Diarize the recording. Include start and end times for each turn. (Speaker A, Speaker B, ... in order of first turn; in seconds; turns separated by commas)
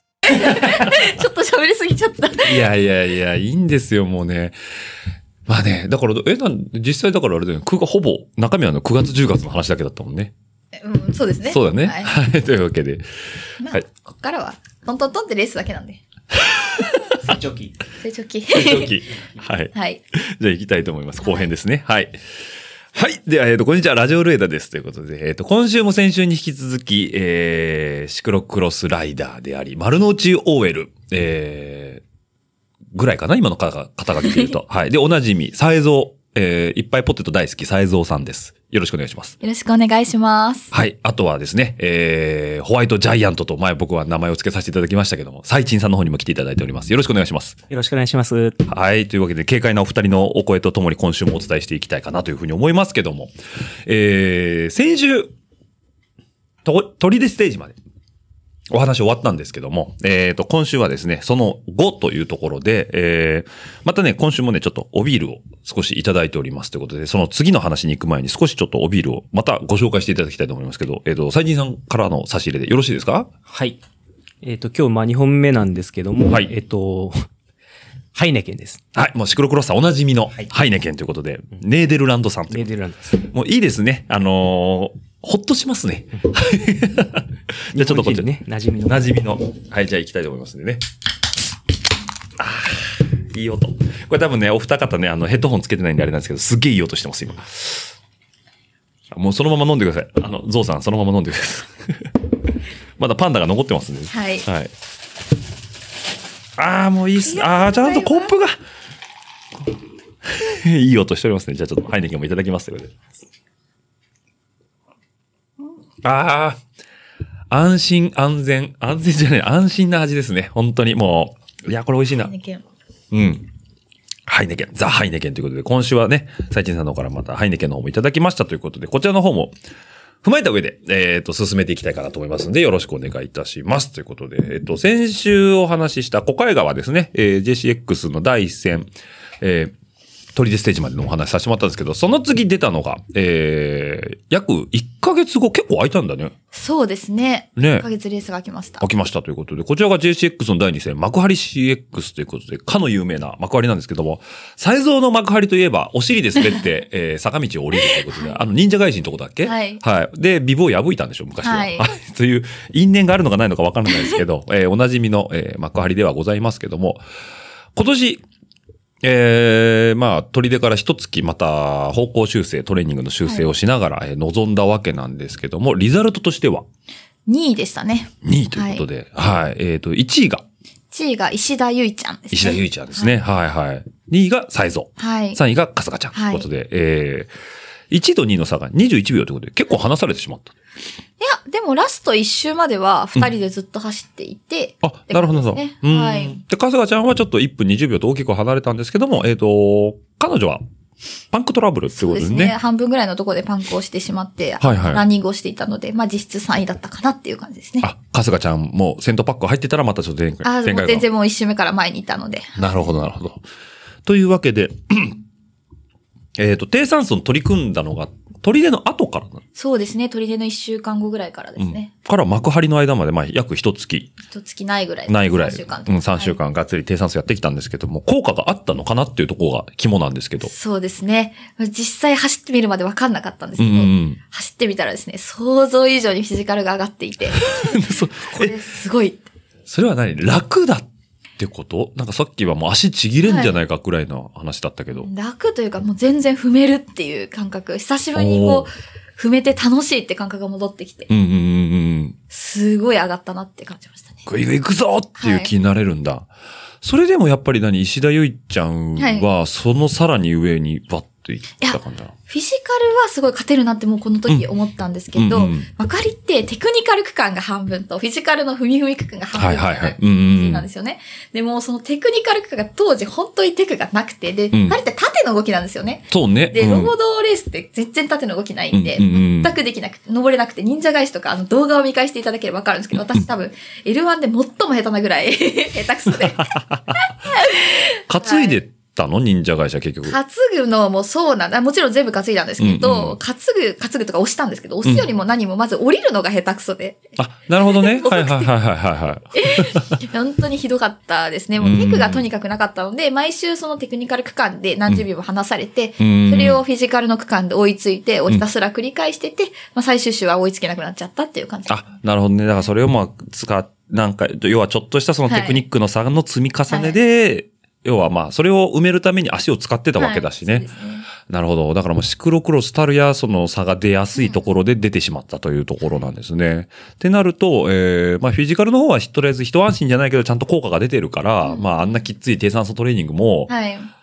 Speaker A: 0.3-2.7, Speaker B: 0.6-0.9, Speaker B: 2.4-4.5, Speaker B: 5.5-10.3, Speaker A: 10.8-12.1, Speaker B: 11.4-13.0, Speaker A: 13.6-16.0, Speaker B: 16.3-17.3, Speaker C: 17.2-17.7, Speaker A: 18.0-19.0, Speaker B: 18.5-22.1, Speaker A: 19.7-20.0, Speaker A: 21.2-21.5, Speaker B: 22.9-32.0, Speaker B: 32.9-39.4, Speaker A: 39.4-40.7, Speaker B: 40.7-47.6, Speaker C: 47.7-48.6, Speaker B: 48.7-53.3, Speaker B: 53.9-55.3, Speaker B: 56.6-57.8, Speaker B: 58.7-73.3, Speaker C: 73.5-73.8, Speaker C: 74.4-77.3, Speaker C: 78.1-78.8, Speaker B: 79.0-88.3, Speaker C: 82.5-83.2, Speaker C: 87.7-89.1, Speaker B: 88.8-90.8, Speaker B: 92.4-97.9, Speaker B: 99.1-102.1, Speaker B: 103.0-104.7, Speaker A: 104.1-104.5, Speaker B: 106.6-108.5, Speaker A: 107.3-108.3, Speaker B: 110.2-113.0, Speaker B: 116.0-116.6, Speaker B: 117.5-122.3, Speaker A: 122.2-122.6, Speaker B: 123.1-123.5, Speaker B: 124.3-129.6, Speaker B: 130.2-138.9, Speaker B: 139.4-139.7, Speaker B: 140.3-146.3, Speaker A: 146.5-148.8, Speaker B: 147.6-147.9, Speaker B: 148.8-167.0, Speaker A: 158.1-158.4, Speaker A: 159.4-159.8, Speaker A: 161.4-161.9, Speaker B: 167.8-168.2, Speaker B: 169.0-176.7, Speaker A: 177.3-178.8, Speaker B: 178.2-180.4, Speaker A: 180.9-183.1, Speaker B: 182.3-187.3, Speaker A: 185.0-185.4, Speaker A: 186.1-186.5, Speaker B: 187.9-190.5, Speaker A: 191.2-196.4, Speaker B: 194.8-200.6, Speaker B: 201.3-202.6, Speaker A: 201.9-207.9, Speaker B: 204.6-205.1, Speaker B: 207.8-211.0, Speaker A: 210.4-212.9, Speaker B: 212.6-213.4, Speaker B: 214.1-215.2, Speaker B: 216.4-219.4, Speaker A: 219.6-221.9, Speaker B: 221.6-224.1, Speaker A: 224.3-226.4, Speaker B: 225.1-230.5, Speaker A: 230.4-239.3, Speaker B: 233.6-234.2, Speaker B: 237.3-238.6, Speaker B: 239.7-240.9, Speaker B: 241.4-245.1, Speaker A: 243.2-243.6, Speaker A: 245.0-251.1, Speaker B: 248.2-248.7, Speaker B: 251.1-252.2, Speaker A: 252.3-254.2, Speaker B: 254.3-256.3, Speaker A: 255.2-255.5, Speaker B: 256.8-262.1, Speaker A: 259.0-259.3, Speaker A: 261.6-288.6, Speaker B: 265.2-265.7, Speaker B: 269.3-270.7, Speaker B: 274.5-274.8, Speaker B: 276.1-276.9, Speaker B: 278.7-279.6, Speaker B: 286.2-286.9, Speaker B: 288.1-290.2, Speaker A: 290.1-297.1, Speaker B: 292.6-293.2, Speaker B: 297.2-299.9, Speaker A: 297.6-298.5, Speaker A: 299.4-311.7, Speaker B: 301.6-302.2, Speaker B: 306.0-306.6, Speaker B: 311.7-320.7, Speaker A: 315.3-315.6, Speaker A: 316.7-316.9, Speaker A: 320.0-321.1, Speaker B: 321.2-333.5, Speaker A: 324.2-324.5, Speaker A: 331.4-332.0, Speaker A: 333.5-333.9